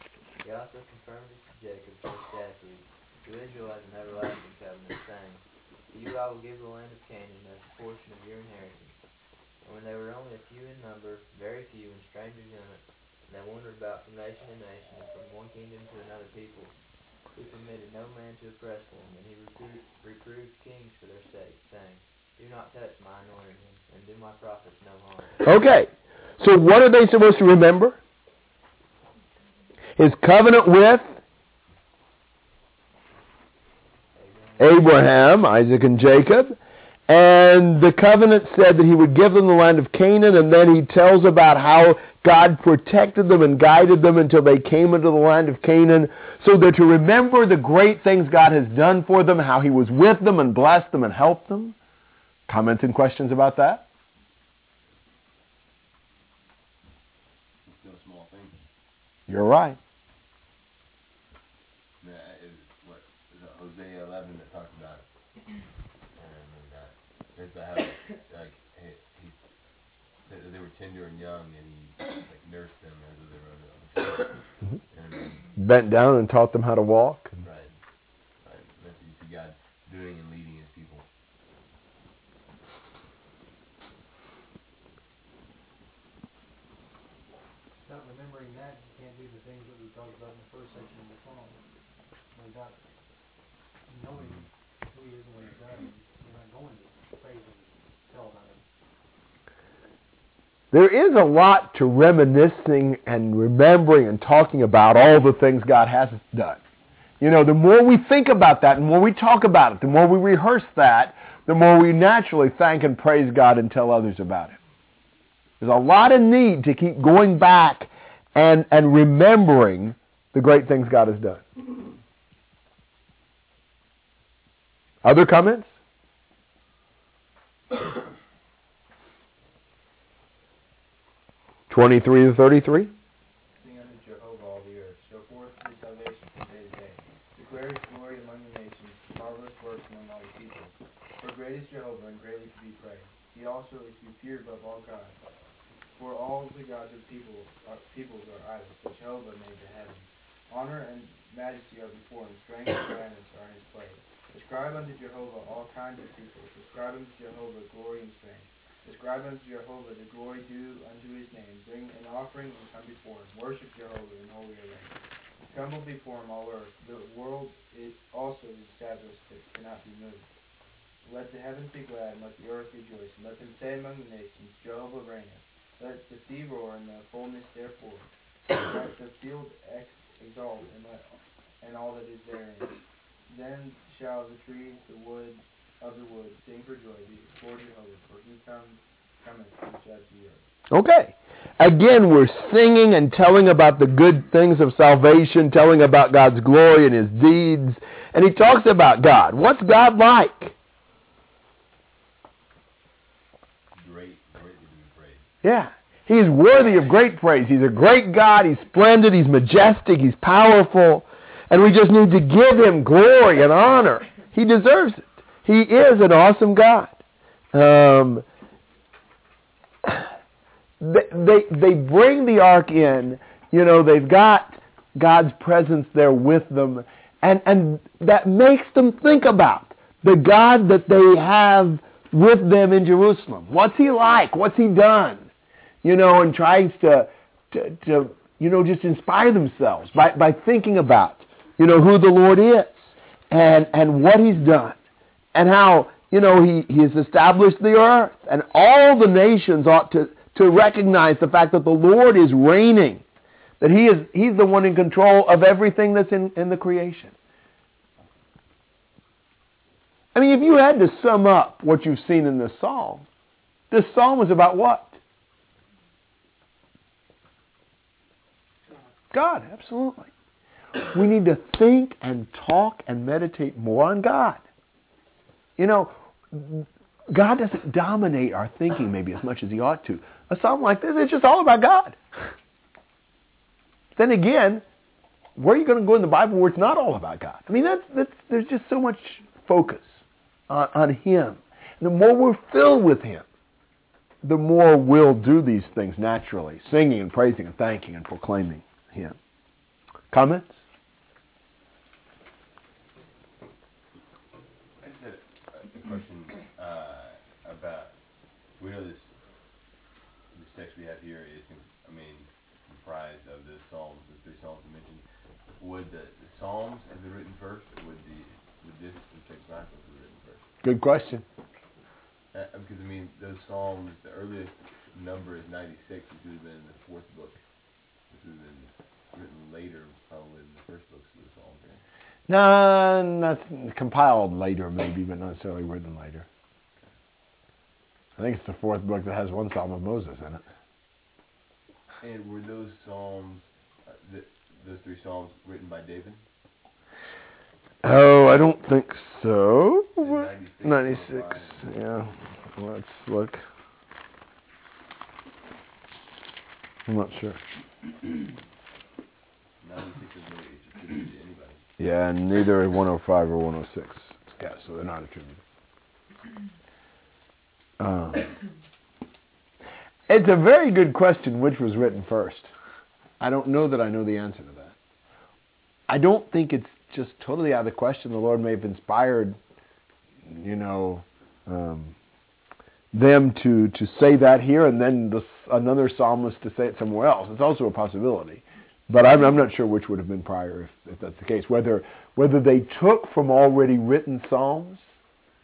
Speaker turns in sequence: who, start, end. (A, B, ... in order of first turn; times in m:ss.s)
0:00.4-0:09.0 A
0:09.6-0:16.7 A
0:17.3-0:25.5 A
0:25.4-0:28.0 B
0:30.0-0:31.2 B
0:34.1-0:34.9 A
0:34.6-0:36.6 B
0:37.1-0:51.8 B
0:52.5-0:53.8 B
0:57.6-0:58.6 C
0:59.3-0:59.8 B
1:02.0-1:05.0 C
1:06.1-1:09.5 C
1:10.2-1:14.4 C
1:14.9-1:15.5 C
1:15.6-1:17.4 B
1:17.4-1:17.7 C
1:18.4-1:21.0 C
1:27.8-1:31.6 D
1:32.3-1:32.8 D
1:33.9-1:38.6 D
1:40.7-1:46.6 B
1:47.2-1:54.6 B
1:55.6-2:01.4 B
2:05.0-2:05.7 B
2:11.7-2:12.9 B
2:13.6-2:25.2 E
2:25.9-2:45.0 E
2:45.5-2:50.3 E
2:51.0-3:01.1 E
3:01.6-3:10.4 E
3:10.7-3:20.5 B
3:23.8-3:25.2 C
3:25.4-3:36.9 B
3:37.5-3:38.2 B
3:40.8-3:55.3 B
3:55.8-4:04.8 B
4:05.3-4:13.0 B
4:13.6-4:17.1 B
4:20.1-4:23.0 B
4:23.7-4:25.0 B
4:29.1-4:30.1 B
4:30.9-4:34.4 B
4:35.6-4:42.0 B
4:44.0-4:44.6 B
4:45.4-4:53.2 B
4:54.2-4:59.2 B
5:00.1-5:00.6 B
5:04.8-5:07.9 C
5:08.6-5:09.1 C
5:10.3-5:15.0 C
5:15.6-5:20.5 C
5:20.6-5:21.2 B
5:22.3-5:27.4 C
5:28.1-5:31.8 C
5:32.3-5:36.2 B
5:38.2-5:40.4 B
5:42.0-5:46.2 C
5:47.8-5:53.4 B
5:50.0-5:51.7 C
5:56.9-5:57.4 B
5:59.6-6:01.6 C
6:01.8-6:05.4 B
6:07.8-6:08.3 B
6:10.1-6:12.5 B
6:13.2-6:14.7 B
6:15.9-6:19.4 B
6:20.3-6:21.9 B
6:22.9-6:35.0 B